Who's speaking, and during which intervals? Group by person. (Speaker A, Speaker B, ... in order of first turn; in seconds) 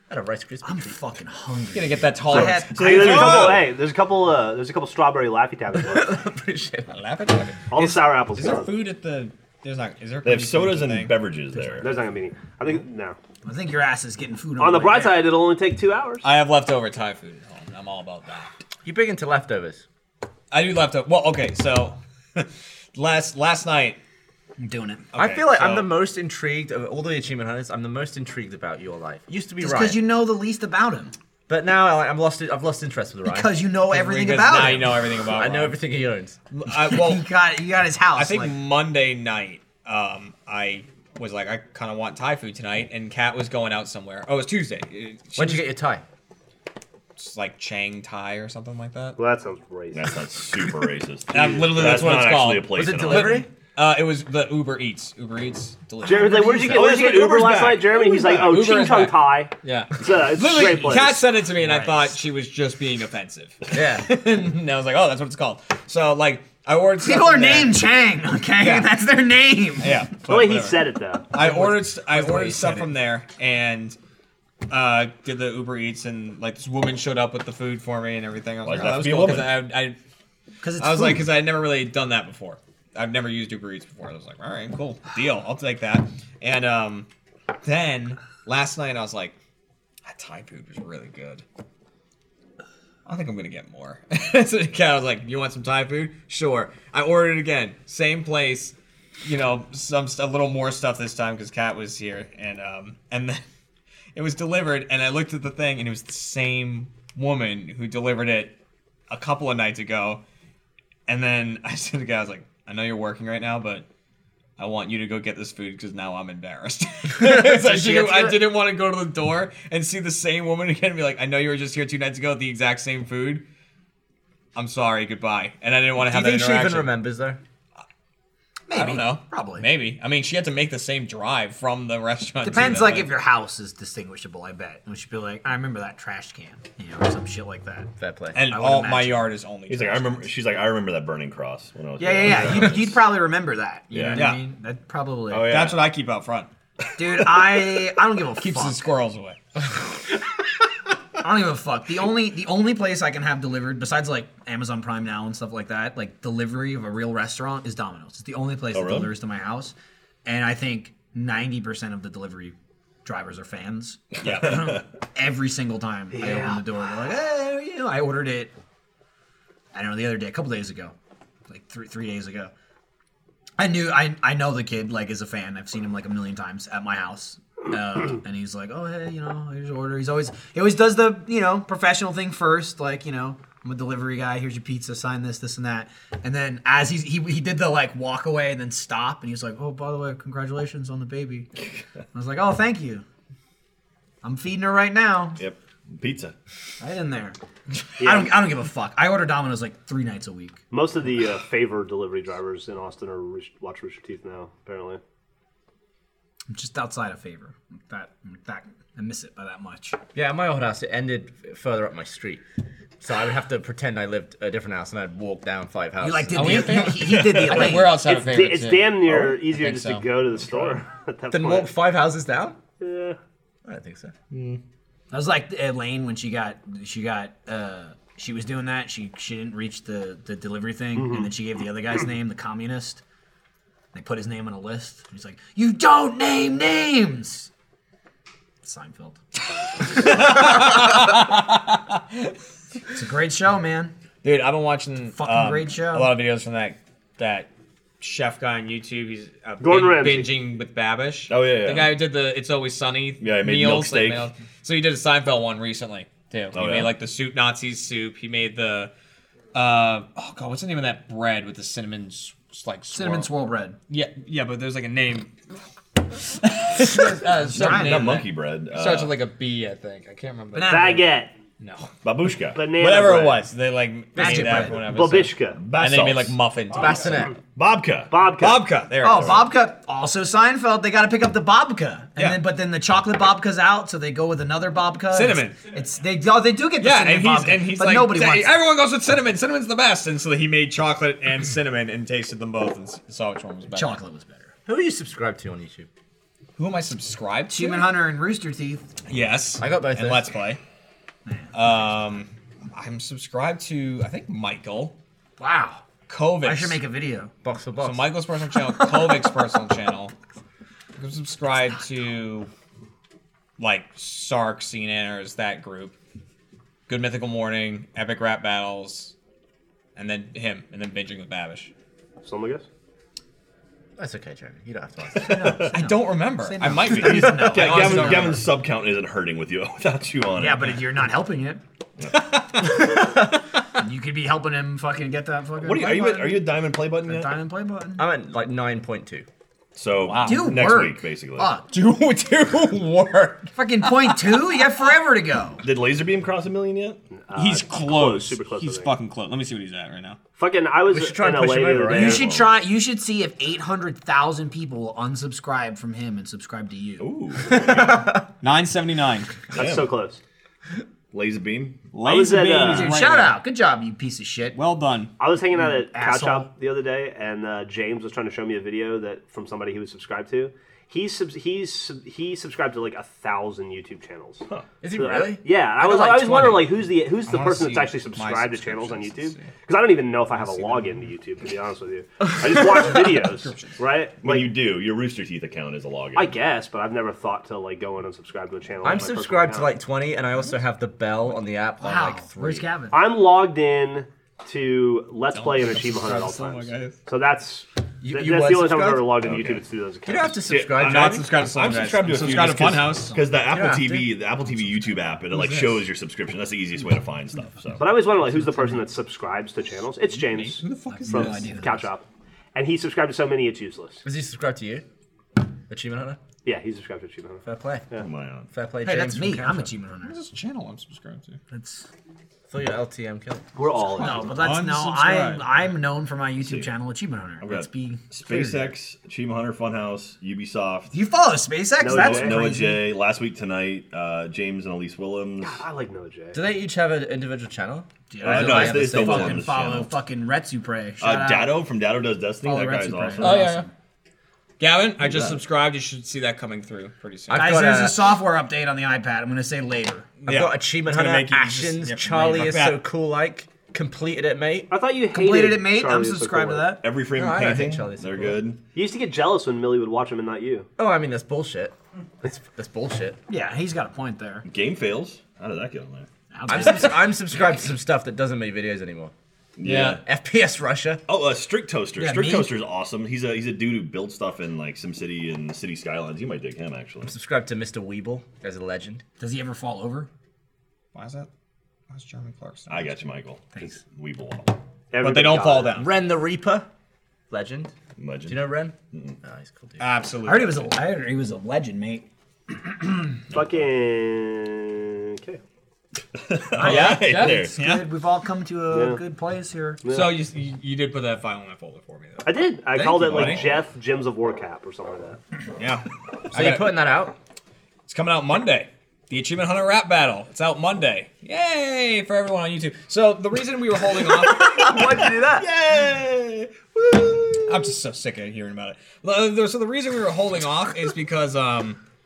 Speaker A: 0.1-0.9, 5.8-6.9, 18.8-19.8, 25.2-30.0, 31.5-33.6, 34.6-36.4, 45.4-46.0, 52.7-53.5, 63.7-64.1, 117.2-118.3, 126.0-127.4, 138.0-138.4, 210.2-212.4, 213.0-217.0, 221.3-222.6, 223.7-224.1, 276.7-277.4, 294.7-295.9, 299.6-300.3, 307.4-308.1, 324.0-325.4, 338.0-339.3, 350.9-352.2, 357.5-358.2, 374.8-376.8, 388.8-392.7, 398.0-399.2, 400.1-401.3, 403.5-404.2, 414.0-414.9, 415.7-416.2, 417.4-417.9, 418.5-419.7, 422.5-423.4, 428.3-428.6, 436.3-439.4, 447.3-448.1, 450.2-454.7, 457.1-458.4, 460.8-463.2, 466.5-469.1, 469.7-471.0, 477.1-479.0, 485.8-486.7, 487.3-487.7, 488.3-489.9, 506.3-507.2, 514.4-515.4
Speaker B: 0.6-3.3, 13.4-15.3, 24.6-25.0, 29.6-31.1, 33.3-34.9, 36.8-38.5, 61.6-62.1, 67.0-70.0, 71.4-72.9, 80.6-81.3, 117.6-118.4, 128.7-129.7, 132.4-137.9, 138.5-139.3, 142.0-145.7, 146.9-148.9, 151.2-168.5, 169.7-170.9, 171.5-172.5, 173.6-191.5, 192.1-193.0, 194.2-195.4, 196.8-197.4, 198.0-200.6, 206.5-210.0, 216.0-217.9, 225.1-233.0, 233.9-237.5, 238.6-239.2, 242.9-243.9, 245.2-246.2, 262.9-263.8, 267.2-268.2, 270.5-271.1, 274.1-274.8, 279.0-288.5, 293.7-294.5, 297.5-298.9, 305.4-305.8, 306.4-307.3, 325.2-328.4, 330.4-331.6, 333.8-336.5, 337.0-338.0, 340.2-341.6, 343.6-345.6, 351.9-357.1, 362.6-364.6, 365.6-366.5, 391.8-392.9, 403.0-403.3, 410.9-411.9, 418.8-420.2, 421.5-421.9, 424.0-428.0, 430.9-432.9, 438.1-441.6, 442.4-443.7, 447.3-450.1, 455.1-456.8, 463.3-464.4, 466.3-467.1, 472.0-472.5, 479.2-480.1, 490.2-493.1, 496.6-499.8
Speaker C: 1.7-3.4, 6.9-11.2, 16.2-18.5, 20.5-24.0, 25.1-25.9, 33.9-35.8, 36.5-37.3, 38.2-45.7, 47.2-49.2, 51.3-56.9, 58.4-67.9, 68.6-68.9, 69.8-74.0, 74.7-80.0, 80.8-87.1, 87.6-89.3, 90.0-91.4, 93.1-103.4, 104.2-108.5, 109.1-110.2, 111.1-113.9, 114.6-123.4, 124.5-126.9, 128.7-133.1, 138.3-140.2, 144.1-144.5, 145.4-146.5, 148.4-149.4, 164.2-164.6, 216.3-220.1, 239.8-242.3, 244.2-247.5, 248.0-258.9, 259.5-263.3, 263.9-265.4, 266.4-271.0, 271.6-271.9, 272.7-277.2, 278.4-279.5, 282.2-282.4, 285.1-285.7, 286.8-294.0, 296.6-298.0, 299.1-300.6, 301.5-304.9, 306.1-306.8, 307.8-310.1, 311.0-312.5, 313.6-315.9, 316.9-319.1, 319.9-321.7, 325.7-328.4, 332.2-332.8, 340.0-340.7, 341.7-344.4, 347.3-350.2, 358.4-359.4, 361.9-363.4, 364.6-365.1, 377.2-379.6, 380.3-381.0, 382.6-383.8, 395.3-397.0, 400.7-403.2, 405.3-405.8, 410.1-411.6, 420.0-421.4, 423.9-425.4, 443.2-443.7, 444.6-447.9, 450.2-452.8, 469.7-470.0, 480.9-481.3, 481.9-483.0, 485.0-485.9, 489.8-490.7, 496.6-497.9, 499.9-503.4, 505.6-506.9, 507.9-514.5, 517.5-521.8
Speaker D: 2.3-3.7, 10.2-11.9, 49.9-53.5, 56.7-58.6, 78.6-79.6, 139.7-143.0, 143.9-144.2, 145.3-145.9, 158.7-159.1, 164.3-164.7, 195.4-196.3, 220.4-220.8, 251.3-252.0, 253.2-254.3, 256.5-256.9, 267.5-269.1, 272.0-272.6, 275.6-276.4, 277.6-278.1, 325.2-325.7, 326.8-330.8, 335.6-337.4, 339.7-341.5, 345.6-347.0, 351.9-352.5, 357.0-358.1, 359.5-359.9, 361.1-361.9, 384.2-386.3, 399.2-399.6, 400.4-407.8, 418.0-418.5, 426.4-426.7, 427.4-430.9, 431.8-435.6, 438.2-439.9, 441.0-443.6, 445.0-445.4, 456.8-458.6, 464.4-466.1, 469.6-470.0, 471.1-477.1, 482.7-484.6, 488.0-489.2, 496.2-497.5, 503.0-503.5, 514.6-517.7
Speaker E: 2.8-6.1, 7.7-8.8, 11.8-13.2, 14.6-16.3, 49.2-50.1, 56.0-61.3, 70.3-71.3, 166.2-166.6, 198.0-198.4, 200.7-205.0, 217.5-221.7, 222.8-223.2, 230.9-231.3, 249.6-250.3, 270.7-271.4, 272.6-273.5, 274.7-275.6, 278.1-278.7, 322.2-322.7, 347.1-348.9, 350.4-352.2, 359.6-360.2, 362.0-362.9, 365.2-374.4, 375.0-384.5, 386.1-389.8, 392.9-400.7, 407.8-414.0, 416.4-418.1, 423.6-424.4, 431.8-432.4, 435.4-436.4, 454.7-456.7, 458.7-460.7, 484.9-485.8, 493.3-495.4, 498.7-499.0, 499.8-500.3, 502.2-505.2